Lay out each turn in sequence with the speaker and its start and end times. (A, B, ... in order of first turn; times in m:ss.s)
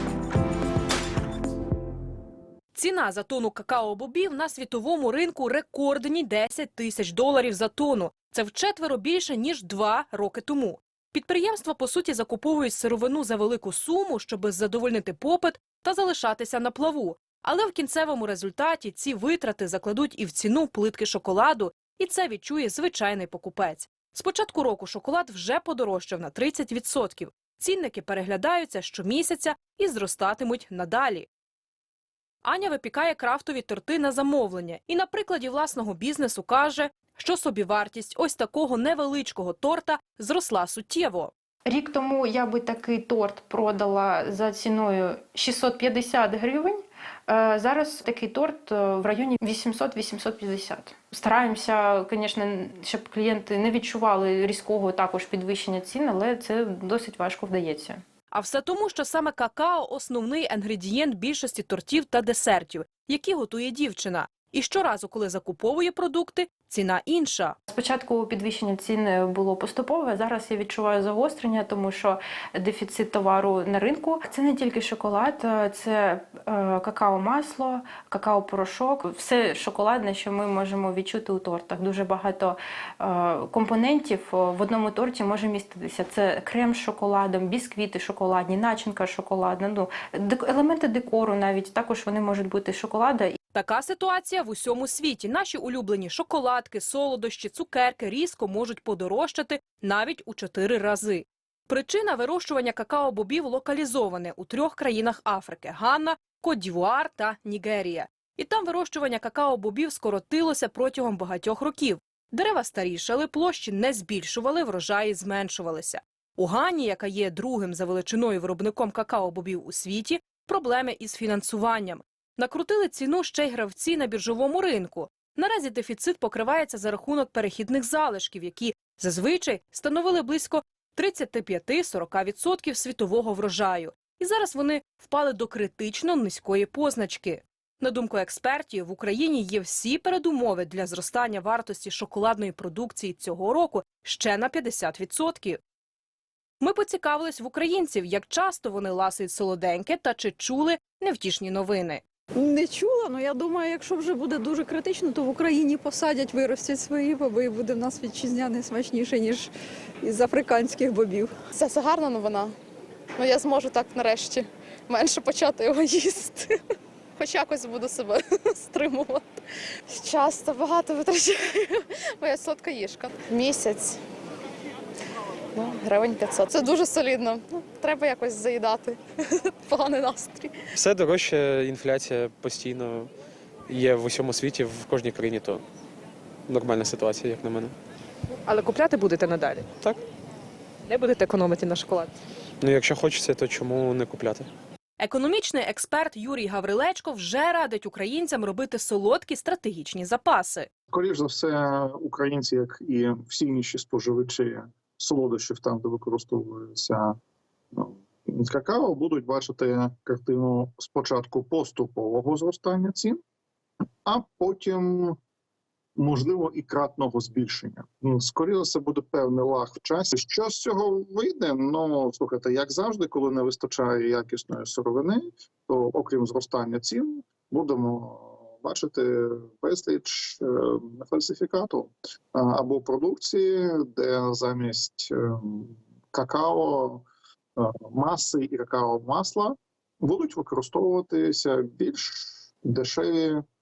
0:02.7-0:31.3 A
0:32.4-0:41.3 A
0:41.6-0:58.0 B
0:58.3-1:07.6 A
1:07.7-1:33.4 B
1:33.5-2:25.6 A
2:26.6-2:32.0 A
2:32.4-2:39.5 C
2:40.0-2:41.4 C
2:41.6-2:42.5 D
2:43.2-2:44.4 D
2:44.9-2:46.4 D
2:47.2-2:49.2 D
2:49.9-2:54.0 D
2:55.5-3:00.5 D
3:00.7-3:03.1 E
3:03.7-3:05.6 E
3:06.5-3:07.7 E
3:08.5-3:09.7 F
3:10.9-3:12.1 F
3:12.6-3:14.5 E
3:15.0-3:20.7 A
3:20.9-3:27.2 G
3:27.7-3:33.2 G
3:34.0-3:35.2 G
3:36.0-3:57.0 G
3:57.6-4:03.4 G